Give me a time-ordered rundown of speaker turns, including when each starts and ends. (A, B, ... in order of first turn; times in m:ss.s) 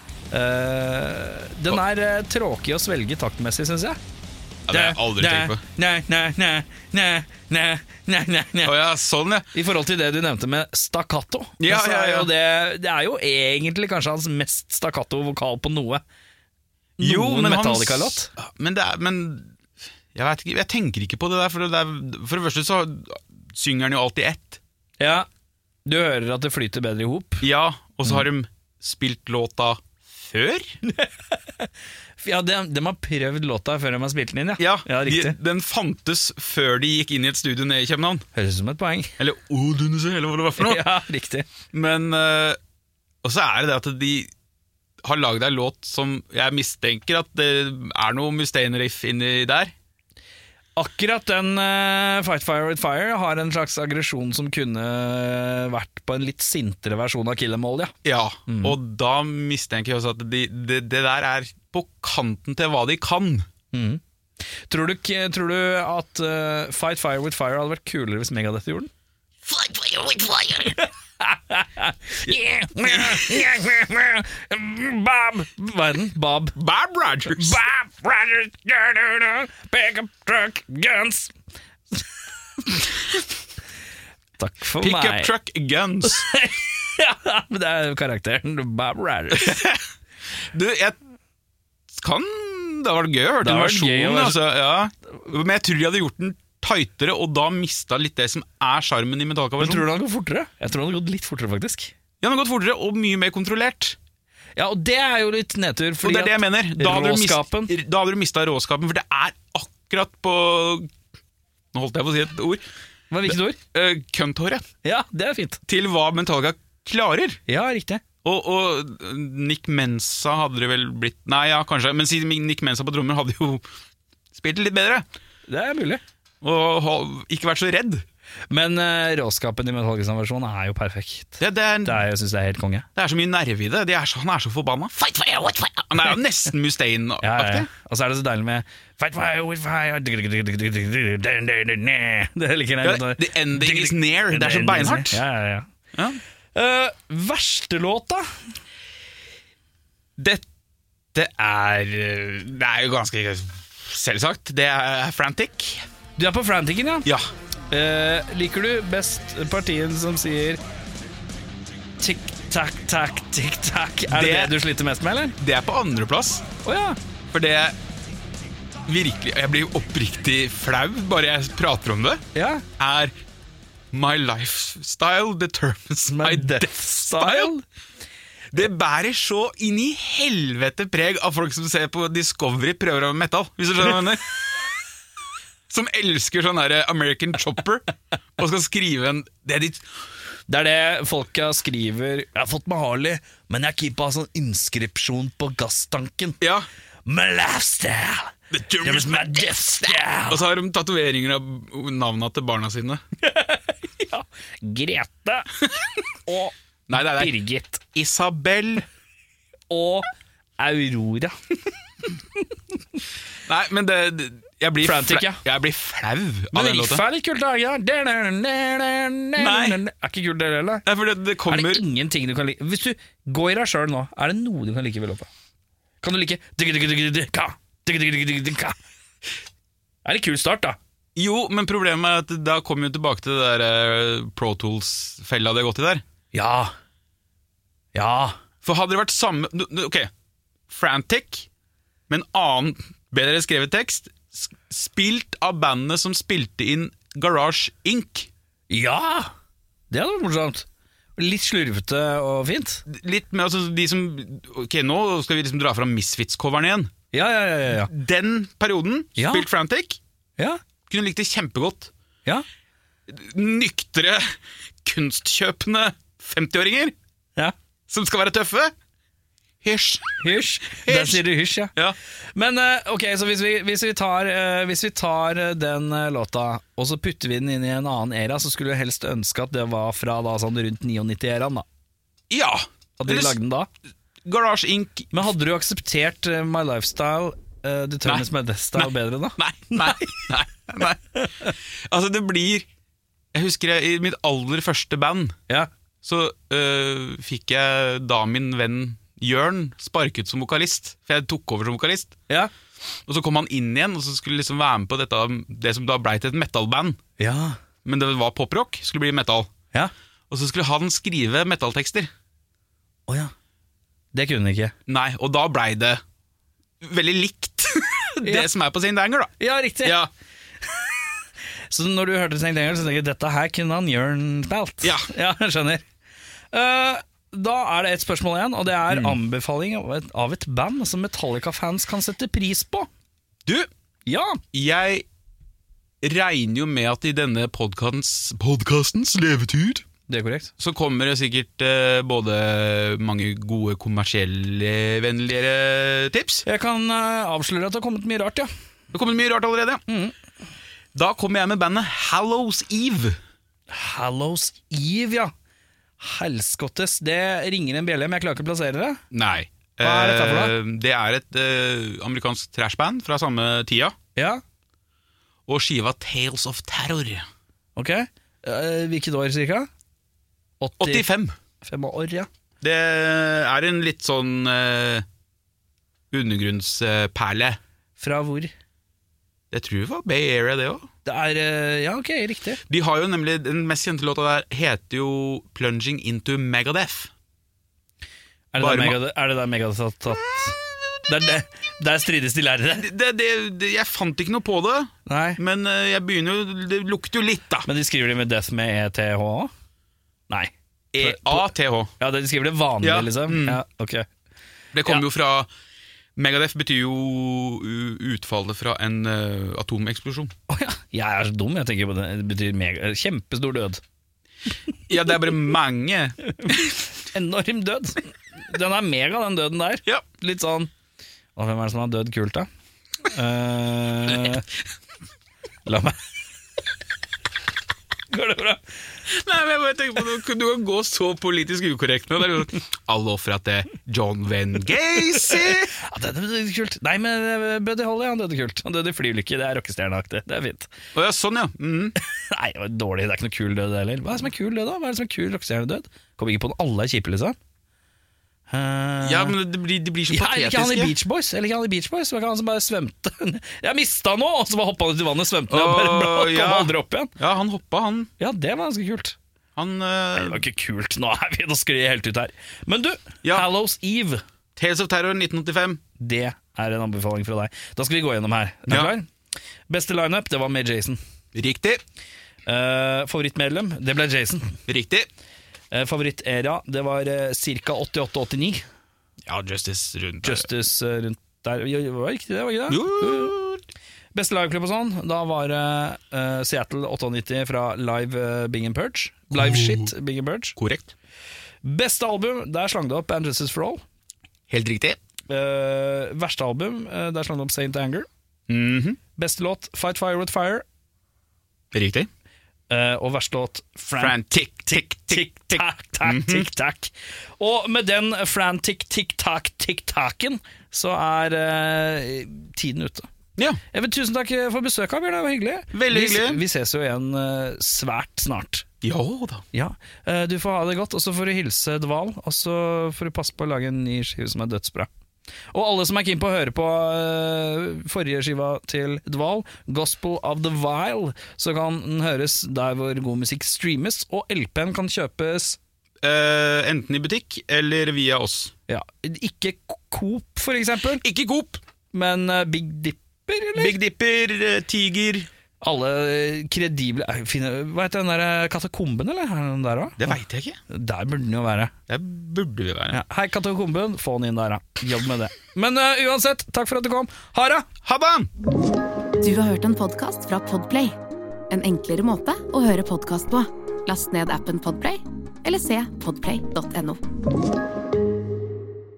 0:00.3-0:04.0 A
0:04.7-0:05.6 B
0:04.7-0:08.8 A
0:08.6-0:09.5 B
0:09.5-0:16.0 A
0:11.6-0:12.3 B
0:17.0-0:18.3 A
0:17.0-0:19.5 B
0:20.1-0:24.6 B
0:25.0-0:25.3 A
0:25.8-0:27.5 A
0:27.4-0:30.8 B
0:30.8-0:31.7 A
0:32.2-0:35.4 A
0:34.6-0:38.2 B
0:38.3-0:39.1 A
0:39.2-0:40.9 B
0:40.6-0:41.5 A
0:41.7-0:42.6 B
0:43.2-0:44.3 B
0:45.0-0:49.7 B
0:50.8-0:57.9 A
0:58.0-1:03.5 B
0:58.5-0:58.8 A
1:03.7-1:04.0 A
1:04.7-1:08.9 A
1:09.4-1:10.8 B
1:10.8-1:16.6 A
1:12.3-1:13.5 B
1:16.6-1:17.6 B
1:17.3-1:21.3 A
1:22.6-1:22.9 A
1:24.4-1:25.3 A
1:24.8-1:26.2 B
1:26.0-1:29.6 A
1:29.3-1:29.8 B
1:30.5-1:31.0 B
1:31.9-1:39.8 B
1:33.4-1:34.4 A
1:39.6-1:41.9 A
1:42.2-1:44.0 B
1:44.6-1:47.7 A
1:46.0-1:50.9 B
1:51.7-1:52.6 B
1:53.1-1:53.6 A
1:53.3-1:54.6 B
1:54.8-1:55.6 A
1:55.7-1:57.4 B
1:57.5-1:58.0 A
1:58.2-2:03.6 B
2:04.3-2:05.0 B
2:05.5-2:06.0 A
2:06.4-2:08.0 B
2:08.5-2:12.9 A
2:11.4-2:12.0 B
2:13.0-2:17.7 B
2:17.2-2:25.7 A
2:22.8-2:25.2 B
2:25.9-2:26.2 B
2:26.5-2:28.3 A
2:30.2-2:30.4 B
2:31.1-2:35.8 B
2:36.2-2:37.1 A
2:37.7-2:40.6 A
2:42.0-2:45.4 A
2:44.1-2:44.6 B
2:45.4-2:46.4 B
2:46.6-2:47.0 A
2:47.3-2:47.8 B
2:48.8-2:52.2 B
2:52.3-2:52.6 A
2:52.8-2:53.1 B
2:53.9-2:57.5 B
2:56.0-2:57.6 A
2:58.5-3:04.3 B
3:05.7-3:07.8 B
3:08.4-3:09.8 B
3:10.5-3:16.4 A
3:16.4-3:16.7 B
3:17.0-3:20.4 A
3:18.5-3:23.0 B
3:23.2-3:25.5 A
3:26.2-3:27.8 A
3:26.9-3:27.3 B
3:27.9-3:28.9 B
3:29.7-3:30.1 A
3:30.6-3:31.3 A
3:33.4-3:37.0 B
3:34.8-3:35.4 A
3:36.5-3:40.8 A
3:39.4-3:39.8 B
3:40.8-3:41.8 B
3:41.5-3:45.3 A
3:46.0-3:48.8 A
3:50.0-3:50.8 A
3:51.1-3:56.0 B
3:56.3-3:56.7 A
3:57.9-3:58.4 A
3:58.6-4:00.1 B
4:00.7-4:01.5 B
4:02.1-4:08.3 B
4:08.7-4:09.3 A
4:09.9-4:10.6 A
4:11.2-4:12.8 A
4:12.9-4:16.9 B
4:17.1-4:17.9 A
4:17.7-4:20.0 B
4:19.2-4:19.4 A
4:20.9-4:21.9 B
4:23.1-4:26.9 B
4:27.9-4:28.7 B
4:29.6-4:32.0 B
4:30.2-4:31.7 A
4:32.4-4:41.6 A
4:42.3-4:43.4 B
4:43.0-4:43.7 A
4:44.2-4:45.2 B
4:45.1-4:50.3 A
4:48.0-4:52.7 B
4:53.3-4:55.4 B
4:56.0-5:02.2 B
5:03.1-5:07.0 B
5:07.2-5:07.6 A
5:07.8-5:09.5 B
5:10.3-5:12.1 B
5:14.1-5:14.7 A
5:14.9-5:16.0 B
5:16.8-5:20.1 B
5:18.2-5:18.5 A
5:19.4-5:20.0 A
5:20.6-5:25.8 A
5:24.8-5:25.1 B
5:26.5-5:32.9 A
5:28.9-5:29.2 B
5:34.1-5:34.4 A
5:34.5-5:35.0 B
5:36.0-5:39.8 B
5:40.1-5:40.5 A
5:40.6-5:46.4 B
5:46.4-5:48.5 A
5:48.9-5:49.8 B
5:49.9-5:50.1 A
5:50.9-5:53.2 B
5:53.7-5:55.3 A
5:56.0-5:59.0 A
5:59.1-6:04.0 B
5:59.8-6:00.5 A
6:04.2-6:04.4 A
6:05.5-6:07.3 B
6:07.8-6:09.7 A
6:10.6-6:11.0 A
6:10.8-6:11.4 B
6:11.6-6:12.3 A
6:12.6-6:15.0 B
6:16.1-6:17.6 B
6:18.0-6:18.5 A
6:19.5-6:20.9 B
6:21.0-6:22.6 A
6:22.7-6:27.1 B
6:28.5-6:32.9 A
6:28.6-6:29.0 B
6:32.7-6:37.7 B
6:35.1-6:35.4 A
6:37.6-6:39.5 A
6:40.3-6:44.0 A
6:40.9-6:41.9 B
6:42.8-6:43.6 B
6:44.7-6:45.5 B
6:46.2-6:50.3 B
6:50.5-6:53.8 A
6:54.9-6:56.7 B
6:56.4-7:00.7 A
7:01.3-7:02.5 A
7:03.0-7:04.4 A
7:05.6-7:06.0 A
7:08.1-7:08.6 A
7:09.1-7:15.7 B
7:15.5-7:20.7 A
7:20.9-7:22.0 B
7:22.0-7:27.4 A
7:28.5-7:29.4 A
7:29.0-7:30.9 B
7:30.1-7:37.1 A
7:35.5-7:38.1 B
7:38.2-7:39.2 A
7:39.6-7:40.4 B
7:40.2-7:44.2 A
7:44.6-7:45.8 B
7:46.0-7:49.1 A
7:48.7-7:48.9 B
7:49.7-7:51.0 A
7:51.3-7:51.8 B
7:52.4-7:54.6 A
7:54.7-7:55.1 B
7:55.7-7:58.6 A
7:59.2-8:00.5 B
8:00.2-8:03.3 A
8:02.7-8:03.6 B
8:04.1-8:10.6 A
8:09.3-8:09.9 B
8:10.6-8:10.9 B
8:11.6-8:13.8 A
8:14.5-8:15.0 B
8:15.3-8:18.1 A
8:18.5-8:19.0 B
8:19.2-8:20.6 A
8:21.7-8:22.1 B
8:22.7-8:33.1 A
8:24.0-8:26.5 B
8:33.7-8:38.6 A
8:35.7-8:36.4 B
8:38.8-8:39.4 B
8:39.5-8:44.9 A
8:45.5-8:55.6 A
8:56.0-8:58.5 B
8:58.7-9:01.0 A
9:01.0-9:01.6 B
9:01.9-9:03.8 A
9:03.5-9:05.3 B
9:05.6-9:10.1 A
9:10.0-9:10.6 B
9:10.7-9:11.7 A
9:11.9-9:13.0 B
9:12.9-9:17.7 A
9:17.8-9:18.3 B
9:19.2-9:20.9 C
9:21.5-9:27.0 C